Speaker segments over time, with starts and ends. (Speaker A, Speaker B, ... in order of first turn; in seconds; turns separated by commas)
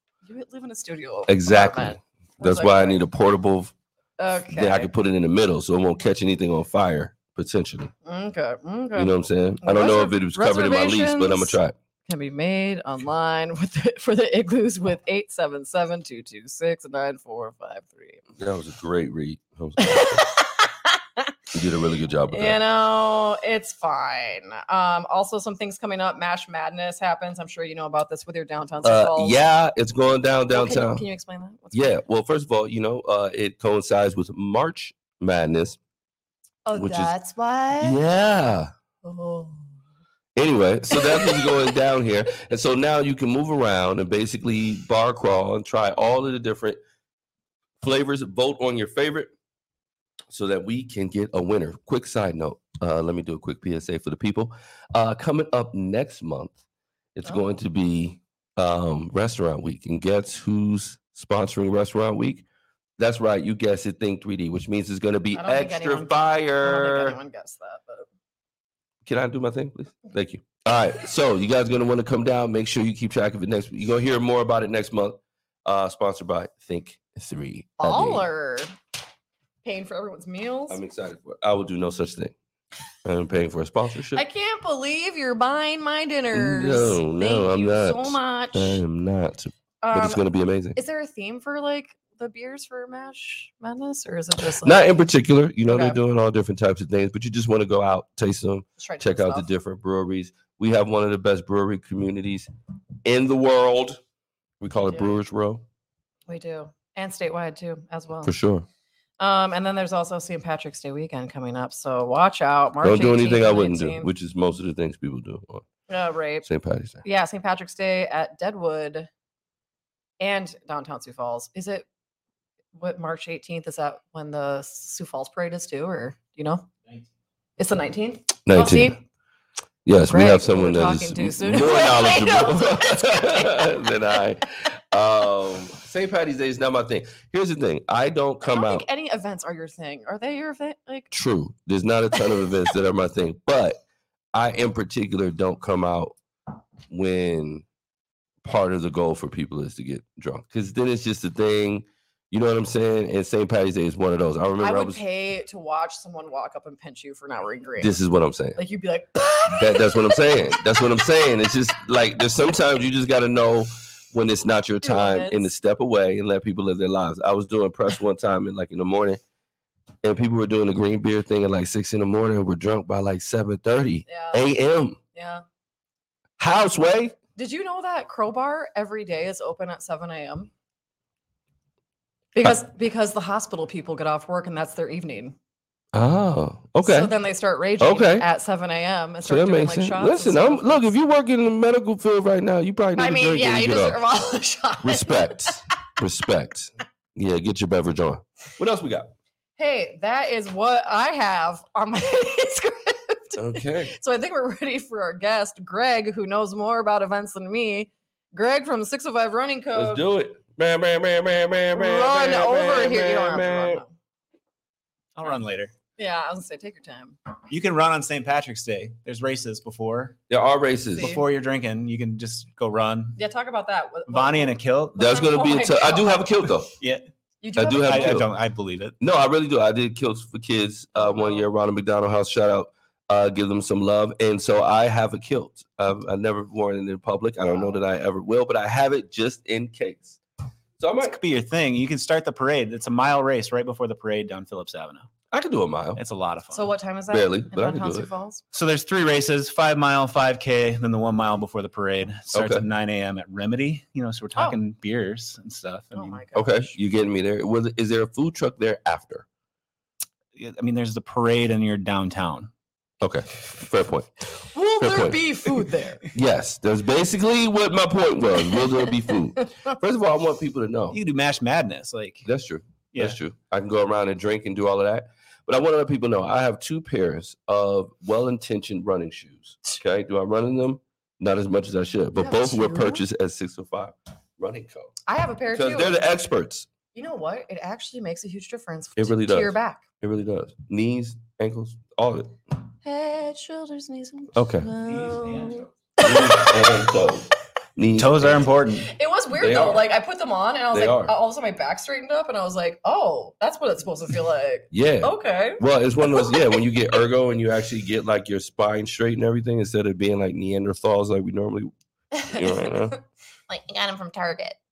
Speaker A: 0.2-3.0, Speaker B: 1.3-3.7, Speaker A: 4.2-4.9, Speaker B: 4.5-7.9, Speaker A: 8.0-18.2, Speaker B: 8.9-11.7, Speaker B: 18.4-20.2, Speaker A: 19.8-21.3, Speaker B: 21.5-22.6, Speaker A: 22.3-29.4, Speaker B: 28.8-31.0, Speaker A: 30.5-32.0, Speaker B: 31.7-35.8, Speaker A: 36.6-38.0, Speaker B: 36.7-37.1, Speaker B: 37.8-38.7, Speaker A: 39.0-39.7, Speaker B: 40.4-46.8, Speaker A: 40.9-41.7, Speaker B: 47.8-49.3, Speaker B: 50.3-56.6, Speaker B: 57.1-62.4, Speaker B: 63.0-67.2, Speaker A: 65.3-68.1, Speaker B: 69.0-78.2, Speaker A: 77.8-78.7, Speaker A: 79.6-80.8, Speaker B: 80.7-82.3, Speaker B: 83.0-84.2, Speaker A: 84.1-88.8, Speaker B: 86.3-90.8, Speaker A: 89.8-90.2, Speaker A: 90.7-94.9, Speaker B: 94.6-102.5, Speaker A: 95.7-96.0, Speaker A: 98.8-99.5, Speaker B: 103.0-104.0, Speaker B: 104.6-105.6, Speaker A: 106.3-108.3, Speaker B: 108.2-108.7, Speaker A: 109.2-114.1, Speaker B: 112.8-115.7, Speaker A: 115.9-116.5, Speaker B: 116.4-117.0, Speaker A: 117.0-119.1, Speaker A: 120.2-121.8, Speaker A: 122.7-126.7, Speaker A: 127.6-129.0, Speaker B: 128.4-128.9, Speaker B: 129.8-138.8, Speaker A: 130.1-133.7, Speaker A: 138.4-141.1, Speaker B: 141.1-143.8, Speaker B: 144.3-146.2, Speaker B: 146.9-147.6, Speaker B: 148.4-155.0, Speaker A: 154.6-157.9, Speaker B: 157.8-158.6, Speaker A: 158.6-161.0, Speaker B: 159.6-169.2, Speaker A: 164.8-165.5, Speaker B: 170.0-175.0, Speaker A: 174.1-174.4, Speaker A: 175.1-175.4, Speaker B: 176.4-177.2, Speaker A: 177.3-180.5, Speaker A: 182.3-185.3, Speaker B: 185.9-187.1, Speaker A: 186.8-190.9, Speaker B: 187.8-188.3, Speaker B: 189.2-194.0, Speaker A: 193.0-195.6, Speaker B: 194.8-199.1, Speaker A: 199.6-210.0, Speaker B: 203.3-203.9, Speaker B: 209.7-213.8, Speaker A: 211.7-213.9, Speaker C: 215.2-215.7, Speaker A: 216.0-217.2, Speaker C: 217.5-220.2, Speaker B: 220.3-221.2, Speaker A: 220.9-221.2, Speaker C: 221.0-223.2, Speaker A: 223.2-226.3, Speaker C: 224.1-225.1, Speaker B: 225.0-226.7, Speaker A: 227.4-228.2, Speaker B: 227.6-228.3, Speaker C: 227.8-228.9, Speaker B: 229.0-240.2, Speaker A: 230.9-231.4, Speaker B: 240.8-241.2, Speaker C: 241.0-245.1, Speaker B: 245.3-246.0, Speaker C: 246.0-246.7, Speaker A: 246.5-248.4, Speaker B: 247.1-248.1, Speaker C: 248.5-256.2, Speaker B: 252.3-252.7, Speaker A: 255.9-256.7, Speaker B: 256.3-259.2, Speaker C: 260.4-262.5, Speaker B: 263.0-265.2, Speaker A: 264.5-266.1, Speaker B: 266.1-271.0, Speaker C: 270.9-272.3, Speaker B: 272.2-284.9, Speaker C: 272.9-273.2, Speaker A: 282.1-283.0, Speaker A: 285.1-286.0, Speaker B: 285.5-286.7, Speaker A: 286.9-289.8, Speaker B: 289.0-292.4, Speaker A: 292.8-297.0, Speaker B: 294.3-294.7, Speaker C: 294.8-295.7, Speaker B: 296.0-298.5, Speaker C: 297.9-298.9, Speaker A: 298.9-306.6, Speaker B: 299.3-299.9, Speaker B: 300.7-301.1, Speaker B: 304.7-311.7, Speaker A: 312.1-312.9, Speaker B: 312.3-312.9, Speaker A: 313.5-314.6